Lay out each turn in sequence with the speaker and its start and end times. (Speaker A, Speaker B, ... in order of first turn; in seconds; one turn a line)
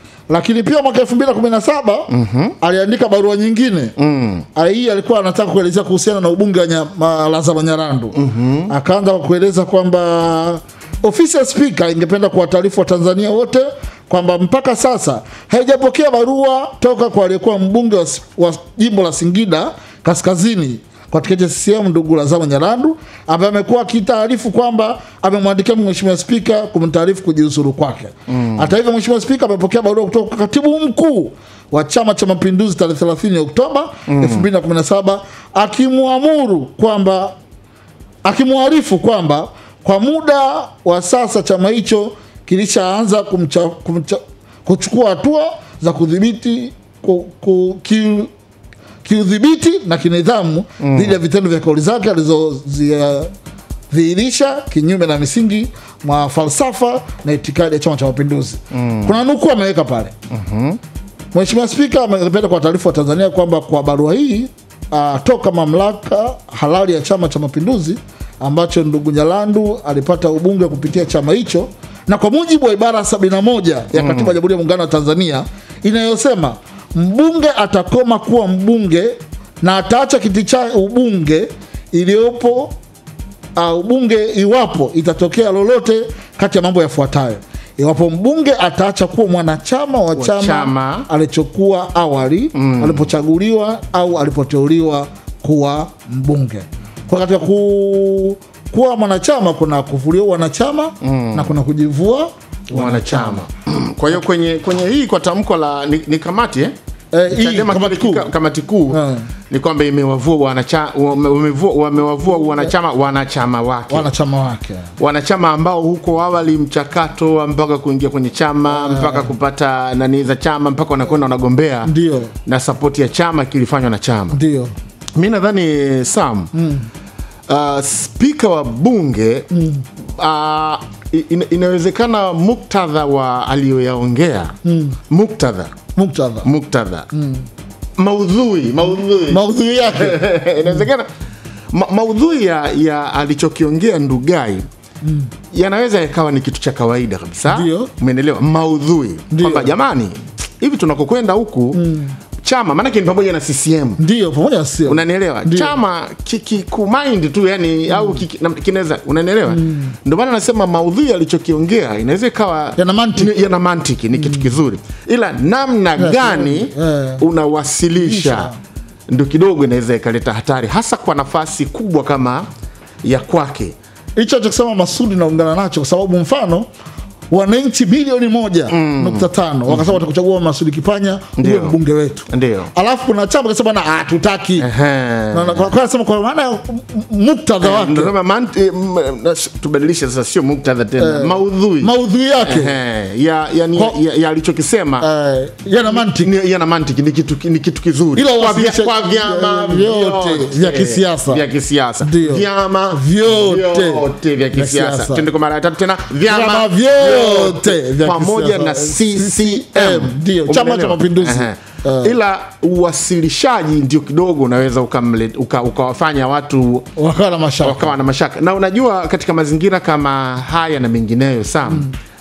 Speaker A: 0.3-2.1
Speaker B: 2.1-2.5
Speaker A: 2.6-3.9
Speaker B: 4.0-4.5
Speaker A: 4.5-8.2
Speaker B: 8.1-8.7
Speaker A: 8.7-37.3
Speaker B: 28.3-28.7
Speaker B: 34.1-34.5
Speaker A: 38.2-48.3
Speaker A: 49.0-53.3
Speaker B: 50.8-51.2
Speaker A: 53.9-60.1
Speaker B: 58.7-59.1
Speaker B: 60.3-60.8
Speaker A: 61.3-82.7
Speaker B: 74.0-74.3
Speaker A: 83.5-103.4
Speaker B: 90.1-91.1
Speaker B: 92.5-93.1
Speaker B: 101.0-101.5
Speaker B: 102.7-106.7
Speaker A: 107.1-108.3
Speaker B: 107.3-114.1
Speaker A: 108.9-109.2
Speaker A: 112.4-112.7
Speaker A: 113.9-114.9
Speaker B: 115.0-121.9
Speaker A: 118.7-119.3
Speaker A: 121.8-122.3
Speaker B: 122.4-124.4
Speaker A: 124.3-124.7
Speaker B: 125.1-126.5
Speaker A: 126.5-126.9
Speaker B: 127.5-129.5
Speaker A: 129.5-129.8
Speaker B: 130.2-134.6
Speaker A: 134.6-135.0
Speaker B: 135.1-135.7
Speaker A: 135.9-136.5
Speaker B: 136.4-137.1
Speaker A: 137.1-137.4
Speaker B: 138.0-141.1
Speaker A: 139.3-140.8
Speaker B: 141.7-144.7
Speaker A: 145.0-145.3
Speaker B: 145.5-151.8
Speaker A: 147.5-147.9
Speaker A: 149.3-149.7
Speaker A: 151.7-152.2
Speaker B: 152.4-154.0
Speaker A: 154.0-155.8
Speaker B: 154.9-168.5
Speaker A: 157.9-158.2
Speaker A: 159.5-159.9
Speaker A: 162.8-163.3
Speaker A: 164.2-164.5
Speaker A: 166.0-167.2
Speaker A: 167.9-168.6
Speaker B: 169.1-172.5
Speaker B: 173.0-173.8
Speaker A: 174.2-176.7
Speaker A: 177.3-184.7
Speaker B: 178.7-179.9
Speaker B: 181.4-181.8
Speaker B: 182.3-182.7
Speaker B: 184.6-185.7
Speaker A: 185.3-188.1
Speaker B: 187.6-191.9
Speaker A: 191.0-192.7
Speaker B: 192.4-195.1
Speaker A: 195.0-196.3
Speaker B: 195.8-216.9
Speaker A: 198.1-201.4
Speaker A: 202.0-205.3
Speaker A: 206.2-212.2
Speaker A: 216.9-217.9
Speaker B: 217.6-221.9